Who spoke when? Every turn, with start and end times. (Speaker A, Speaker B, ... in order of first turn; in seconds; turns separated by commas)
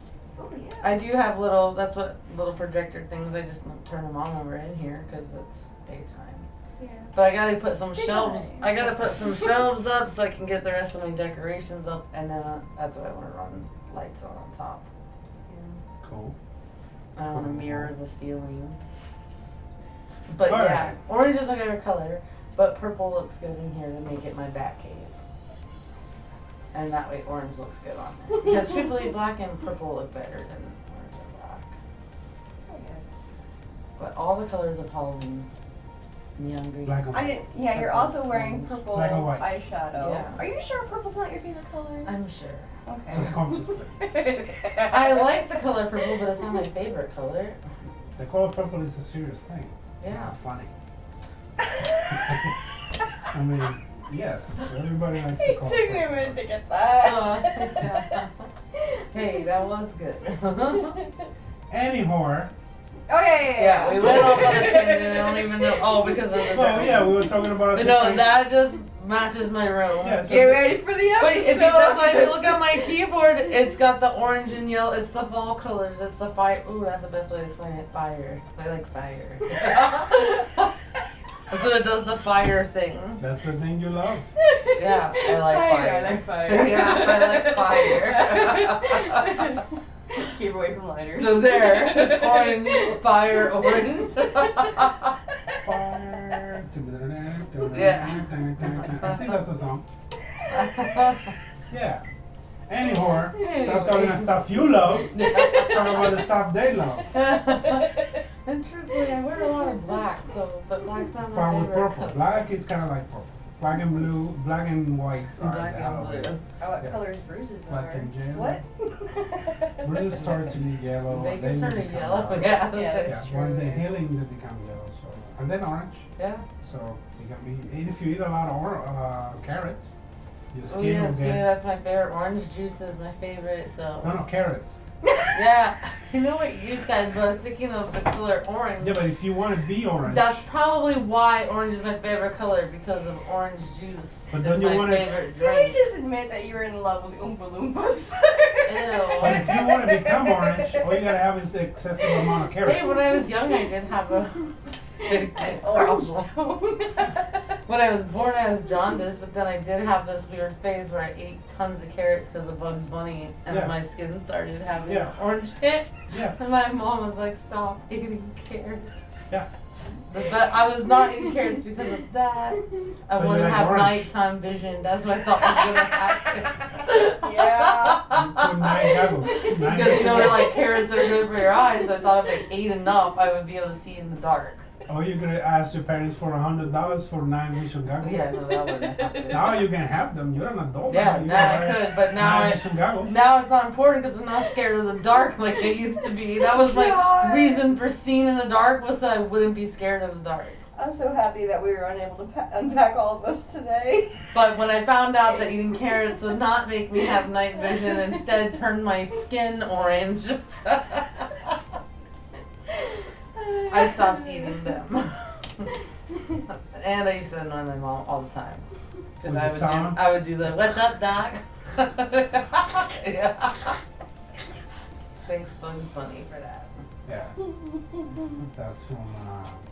Speaker A: 0.3-1.0, Speaker B: 0.8-6.5, Speaker A: 6.8-7.1, Speaker B: 7.1-14.8, Speaker A: 8.0-9.5, Speaker A: 15.5-15.8, Speaker C: 16.0-16.3, Speaker B: 17.1-18.8, Speaker C: 17.3-17.9, Speaker B: 20.3-25.1, Speaker C: 20.4-20.9, Speaker B: 26.7-31.8, Speaker A: 28.4-29.0, Speaker A: 32.7-33.0, Speaker B: 34.0-35.5, Speaker B: 36.4-37.0, Speaker C: 36.8-37.9, Speaker A: 37.1-42.1, Speaker B: 37.7-38.8, Speaker C: 38.9-39.5, Speaker B: 40.0-40.4, Speaker B: 42.0-43.3, Speaker A: 42.9-46.6, Speaker C: 43.1-44.0, Speaker B: 44.9-47.6, Speaker C: 48.2-50.7, Speaker B: 50.0-50.3, Speaker A: 51.6-52.2, Speaker C: 52.1-52.5, Speaker C: 53.3-56.5, Speaker A: 55.4-58.2, Speaker B: 57.0-58.5, Speaker A: 58.7-59.5, Speaker B: 59.1-61.0, Speaker A: 60.7-61.3, Speaker C: 61.7-62.5, Speaker A: 63.1-67.3, Speaker B: 63.6-70.5, Speaker C: 64.0-64.7, Speaker C: 66.5-68.3, Speaker C: 70.0-70.8, Speaker A: 70.2-72.9, Speaker B: 71.1-80.7, Speaker B: 81.5-83.2, Speaker C: 83.2-84.3, Speaker A: 84.4-94.9, Speaker B: 84.7-89.5, Speaker B: 91.2-95.1, Speaker C: 95.6-99.8, Speaker B: 97.7-99.2, Speaker B: 100.5-101.3, Speaker C: 101.7-102.0, Speaker C: 102.7-107.1, Speaker A: 103.4-103.8, Speaker B: 103.4-106.2, Speaker A: 105.1-106.2, Speaker B: 107.1-112.4, Speaker A: 107.6-108.1, Speaker A: 109.4-110.0, Speaker C: 111.2-117.0, Speaker B: 115.4-116.4, Speaker A: 116.6-120.2, Speaker C: 117.7-118.6, Speaker C: 119.8-126.1, Speaker B: 121.1-123.6, Speaker A: 122.6-123.9, Speaker B: 126.2-126.4, Speaker C: 126.6-130.0, Speaker C: 130.5-131.4, Speaker B: 130.7-134.2, Speaker C: 134.0-134.8, Speaker A: 135.0-135.3, Speaker B: 135.3-139.1, Speaker C: 138.8-140.4, Speaker B: 140.0-145.8, Speaker C: 144.3-145.1, Speaker A: 145.4-151.1, Speaker B: 148.7-149.5, Speaker C: 149.2-153.1, Speaker A: 152.0-153.7, Speaker B: 152.6-156.3, Speaker A: 155.0-157.3, Speaker B: 157.7-168.9, Speaker C: 163.5-163.7, Speaker C: 164.8-165.2, Speaker C: 166.1-166.3, Speaker B: 170.1-184.7, Speaker A: 171.0-171.5, Speaker C: 173.2-174.0, Speaker A: 177.2-178.0, Speaker C: 178.1-180.5, Speaker A: 180.2-181.3, Speaker C: 184.9-188.3, Speaker B: 188.0-189.6, Speaker A: 189.0-189.5, Speaker C: 189.3-193.2, Speaker B: 190.9-200.6, Speaker A: 196.4-197.8, Speaker A: 200.8-204.2, Speaker B: 204.3-211.3, Speaker A: 207.7-208.0, Speaker A: 213.3-214.8, Speaker B: 213.7-215.7, Speaker B: 216.5-218.6, Speaker B: 219.2-223.8, Speaker C: 219.2-220.0, Speaker B: 225.2-226.8, Speaker C: 227.1-227.4, Speaker A: 227.4-228.3, Speaker C: 228.5-229.6